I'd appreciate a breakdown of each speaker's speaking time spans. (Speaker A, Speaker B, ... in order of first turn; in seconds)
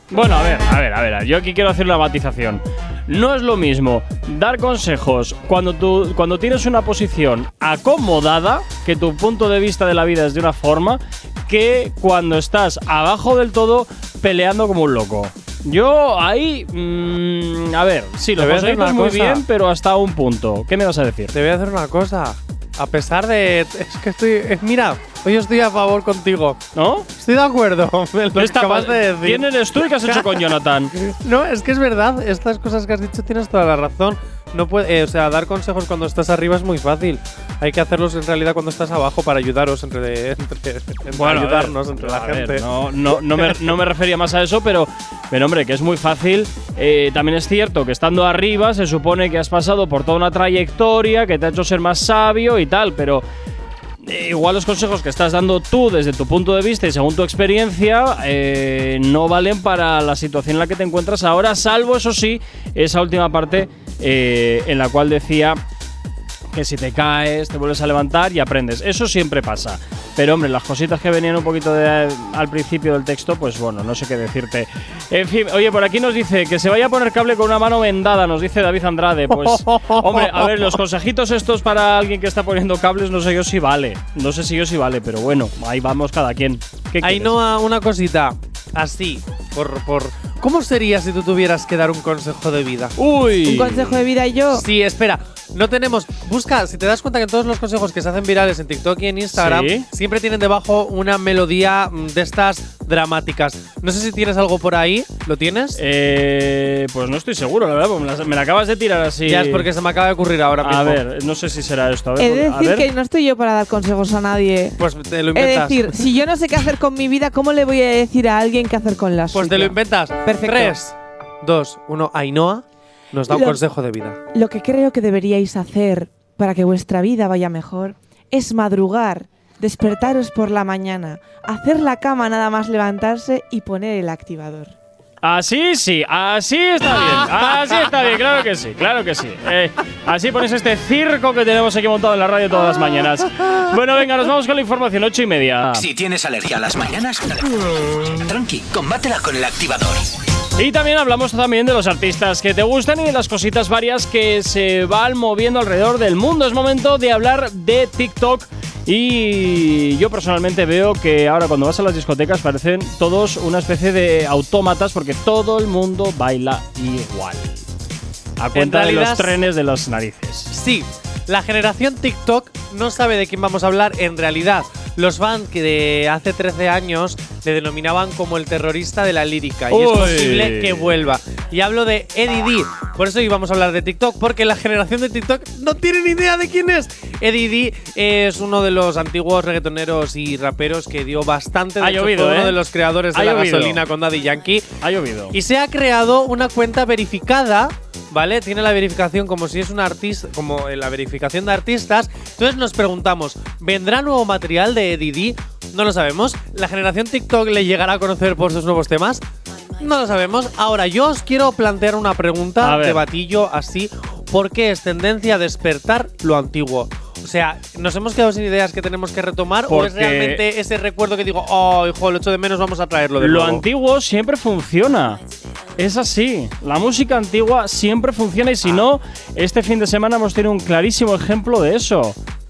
Speaker A: 0.1-21.4, 26.8-27.1, 28.4-30.9, 41.1-53.2, 54.0-65.6, 66.5-87.3, 93.0-94.0, 99.4-99.9, 105.8-109.7, 110.6-112.9, 135.2-145.9, 150.6-167.7, 168.4-170.5, 179.7-180.9, 191.8-192.6, 193.1-193.8, 194.8-195.4, 212.6-213.0, 219.7-220.4, 223.2-225.2, 225.8-232.2
Speaker B: 18.4-19.4, 21.3-26.6, 27.2-30.3, 31.0-42.6, 79.3-80.8, 87.0-93.0, 94.5-105.8, 109.3-111.0, 114.8-115.9, 119.3-124.2, 168.6-169.4, 170.5-194.7, 195.3-209.2, 209.8-223.6
Speaker C: 93.5-94.7, 112.2-114.8, 115.3-120.8, 123.3-123.6, 124.3-134.7
Speaker D: 145.8-150.1